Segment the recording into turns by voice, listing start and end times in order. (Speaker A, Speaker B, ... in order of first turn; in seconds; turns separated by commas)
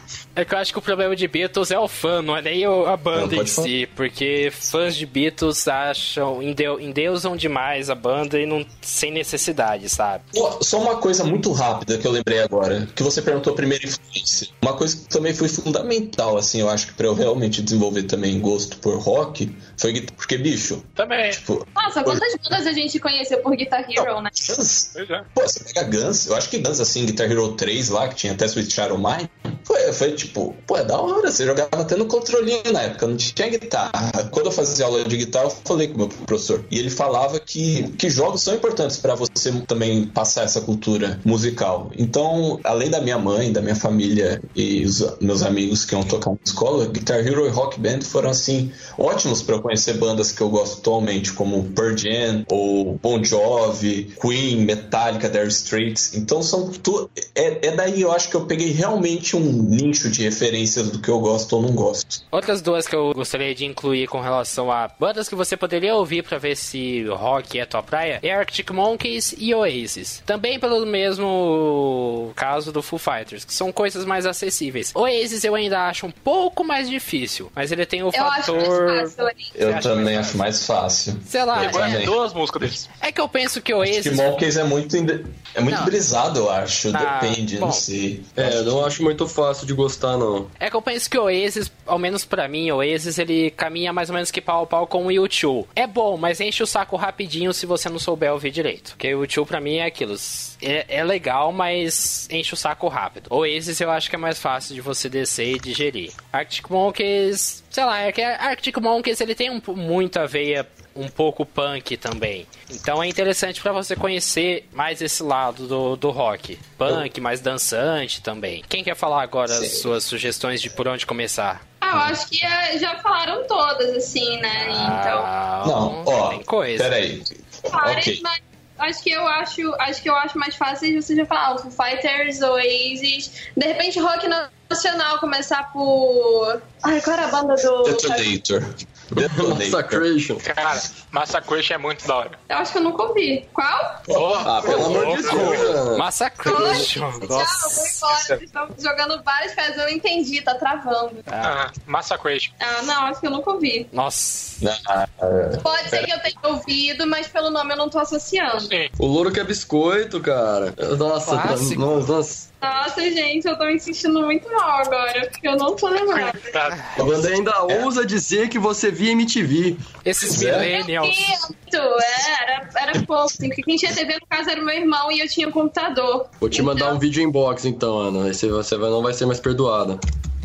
Speaker A: 0.4-10.2, Speaker B: 3.1-3.7, Speaker B: 10.3-22.2, Speaker C: 21.0-21.4, Speaker D: 21.8-24.3, Speaker B: 24.0-62.1, Speaker C: 25.0-25.3, Speaker A: 62.3-80.5, Speaker D: 78.1-79.6, Speaker B: 79.5-82.2, Speaker A: 81.3-82.1, Speaker C: 81.6-82.9, Speaker A: 83.0-84.3, Speaker B: 83.8-88.9, Speaker A: 86.9-87.8, Speaker E: 88.4-90.5, Speaker A: 90.6-122.1, Speaker B: 119.5-119.9, Speaker D: 121.8-125.3, Speaker A: 124.6-127.0, Speaker B: 125.6-128.2, Speaker D: 127.7-138.3, Speaker B: 137.8-140.1, Speaker E: 139.2-140.4, Speaker C: 140.4-142.4, Speaker D: 142.5-144.1, Speaker B: 144.1-145.8, Speaker A: 144.2-148.0, Speaker E: 144.4-146.1, Speaker D: 146.5-151.3, Speaker B: 146.5-146.9, Speaker B: 148.1-148.4, Speaker A: 151.3-151.6, Speaker C: 151.4-152.5, Speaker D: 152.6-153.9, Speaker A: 153.9-154.6, Speaker B: 154.6-156.1, Speaker D: 155.6-158.7, Speaker E: 159.0-162.5, Speaker A: 161.2-161.8, Speaker D: 162.6-166.5, Speaker C: 166.1-166.9, Speaker A: 166.7-167.0, Speaker E: 167.0-169.8, Speaker B: 167.0-167.9, Speaker A: 170.0-171.4, Speaker B: 170.2-170.7, Speaker D: 170.6-177.0, Speaker E: 176.4-180.0